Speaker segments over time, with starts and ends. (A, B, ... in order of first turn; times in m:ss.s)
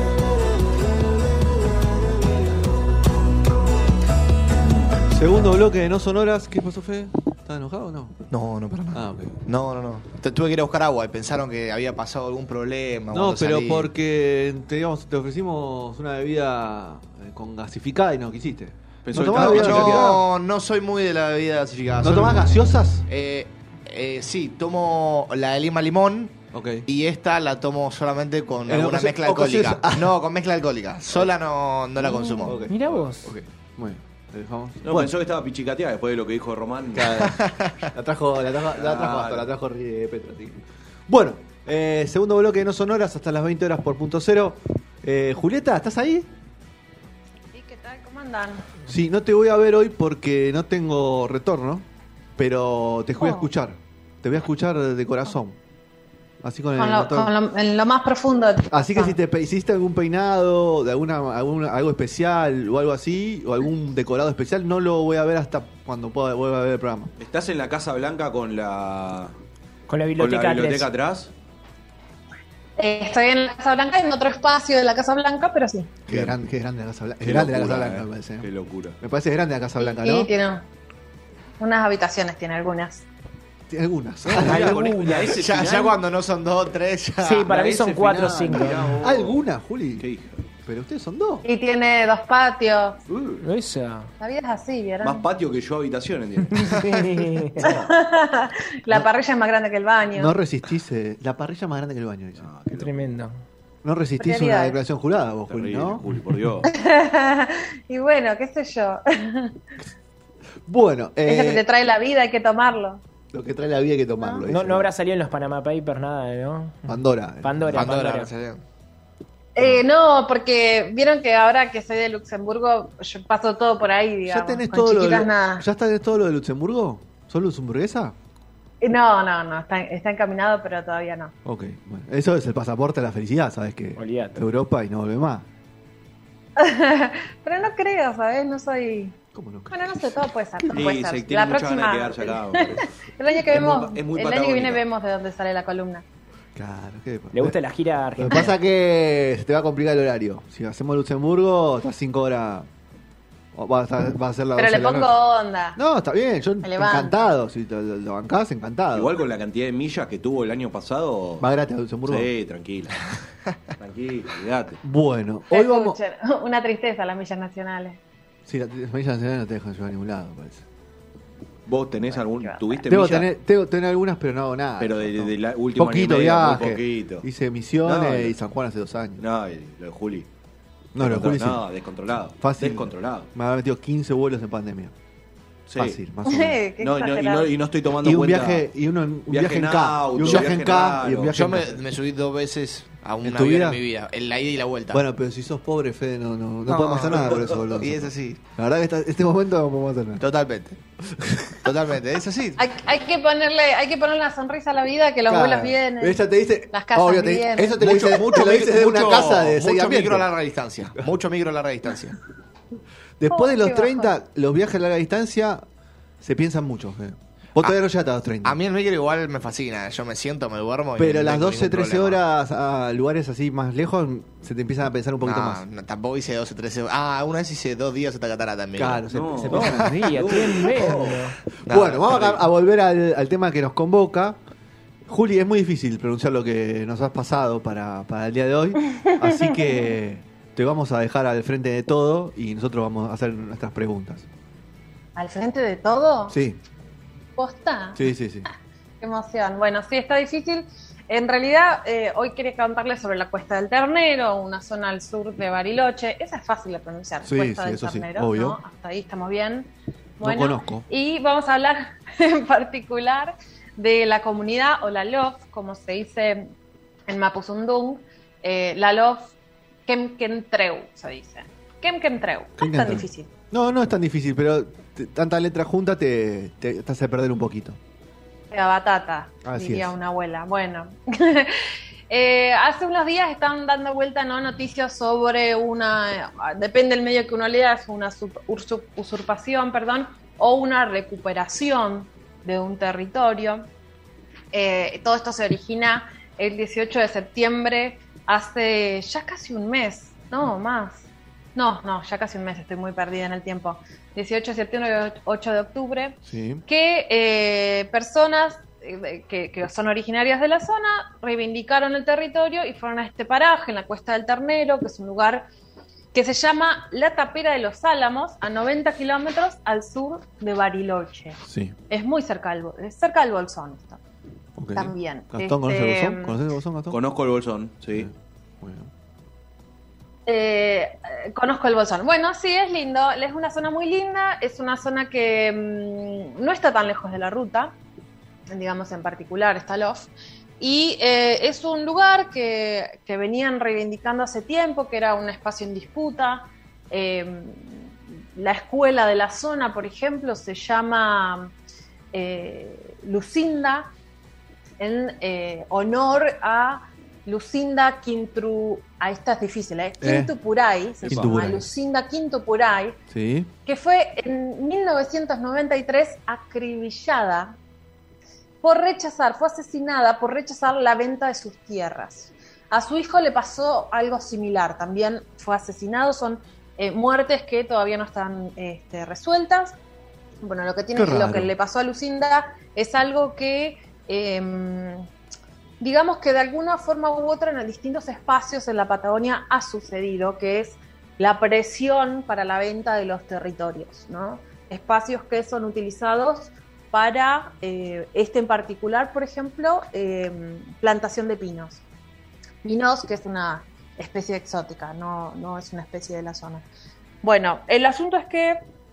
0:05.1-0:08.2 A
0:08.3-0:13.9 B
0:08.9-0:09.4 A
0:13.1-0:20.2 A
0:19.0-0:20.2 C
0:19.2-0:22.4 B
0:22.0-0:23.1 A
0:23.1-0:32.7 B
0:26.5-0:26.9 A
0:28.7-0:30.2 A
0:32.0-0:35.1 A
0:32.7-0:33.4 D
0:34.8-0:37.2 C
0:36.9-0:46.3 A
0:37.2-0:37.9 B
0:38.8-0:39.5 C
0:47.5-0:48.8 E
0:48.9-0:51.9 A
0:52.4-0:55.6 A
0:53.2-0:53.5 E
0:56.4-0:57.3 A
0:56.8-0:59.2 E
0:58.7-1:07.1 A
1:07.2-1:09.3 C
1:09.9-1:10.9 D
1:10.2-1:11.3 C
1:12.8-1:15.9 E
1:16.1-1:20.3 A
1:16.1-1:16.4 C
1:17.2-1:19.0 C
1:19.8-1:20.6 E
1:21.6-1:23.0 E
1:23.7-1:25.3 A
1:24.2-1:26.0 C
1:24.4-1:25.4 D
1:25.3-1:27.5 B
1:27.2-1:29.0 D
1:27.5-1:29.4 C
1:29.0-1:30.1 A
1:30.0-1:30.5 C
1:30.6-1:31.4 A
1:31.4-1:33.0 E
1:33.1-1:33.4 C
1:33.4-1:34.1 D
1:34.2-1:35.3 E
1:35.0-1:37.9 C
1:36.5-1:37.7 D
1:37.6-1:40.4 E
1:40.1-1:42.5 A
1:42.4-1:43.1 C
1:42.7-1:43.4 D
1:43.8-1:46.6 A
1:44.2-1:44.8 E
1:45.5-1:46.7 C
1:46.6-1:49.6 E
1:50.7-1:51.6 A
1:51.3-1:53.0 E
1:53.3-1:54.9 A
1:54.2-1:54.4 E
1:54.5-1:58.3 D
1:56.9-1:57.9 A
1:57.7-1:58.6 B
1:59.6-2:05.7 E
2:04.3-2:08.2 A
2:08.8-2:11.3 E
2:11.4-2:15.5 A
2:14.0-2:14.4 D
2:16.6-2:19.2 E
2:19.3-2:20.3 A
2:19.7-2:26.0 E
2:20.7-2:24.8 C
2:26.6-2:27.6 A
2:27.3-2:28.5 D
2:28.2-2:32.7 A
2:33.5-2:35.2 A
2:34.6-2:35.8 E
2:35.8-2:39.2 A
2:36.6-2:37.2 E
2:38.9-2:41.5 C
2:41.4-2:42.3 A
2:42.0-2:43.0 C
2:43.8-2:44.8 C
2:44.8-2:46.0 A
2:45.5-2:48.0 E
2:48.5-2:50.6 A
2:51.7-2:53.3 C
2:52.0-2:52.9 E
2:52.9-2:59.2 A
2:54.8-2:57.3 C
2:57.8-2:58.4 C
2:59.2-3:00.3 C
3:01.0-3:01.6 A
3:01.0-3:03.3 C
3:02.4-3:04.9 A
3:05.7-3:06.0 C
3:05.8-3:06.6 A
3:06.3-3:07.5 E
3:06.8-3:08.6 C
3:08.0-3:11.7 A
3:09.3-3:11.7 C
3:11.2-3:15.0 B
3:13.2-3:13.8 A
3:14.9-3:20.2 A
3:16.7-3:18.4 B
3:17.3-3:17.6 C
3:20.2-3:20.8 B
3:21.1-3:21.7 A
3:21.4-3:22.6 B
3:22.6-3:27.8 E
3:25.3-3:30.3 A
3:27.8-3:32.2 B
3:28.0-3:28.3 C
3:33.2-3:35.6 A
3:33.3-3:34.1 E
3:36.2-3:38.6 A
3:38.4-3:42.2 B
3:41.0-3:45.6 A
3:45.2-3:49.0 B
3:48.8-3:51.0 A
3:49.1-3:51.3 C
3:49.5-3:51.4 D
3:51.6-3:54.4 A
3:51.7-3:52.4 B
3:55.1-4:04.3 A
3:59.1-3:59.7 E
4:05.2-4:06.4 E
4:06.3-4:06.6 A
4:07.4-4:08.0 E
4:08.0-4:08.5 A
4:09.0-4:26.5 E
4:17.2-4:18.6 A
4:20.2-4:20.9 A
4:27.1-4:29.3 E
4:29.9-4:33.3 E
4:32.6-4:37.8 A
4:38.5-4:53.7 E
4:39.4-4:39.9 A
4:54.5-5:15.5 E
5:06.3-5:06.6 A
5:16.1-5:24.0 E
5:21.4-5:21.8 A
5:24.6-5:27.0 A
5:24.7-5:26.4 E
5:26.9-5:28.1 C
5:27.9-5:28.9 A
5:30.3-5:37.7 E
5:38.5-5:51.5 E
5:52.1-5:53.9 E
5:54.8-6:03.0 E
6:00.0-6:00.3 A
6:01.0-6:01.4 C
6:01.1-6:01.7 A
6:03.1-6:03.5 A
6:03.7-6:07.6 E
6:08.6-6:19.8 E
6:20.4-6:25.1 E
6:21.0-6:21.5 A
6:25.8-6:41.8 E
6:42.6-6:46.7 E
6:47.2-6:48.6 E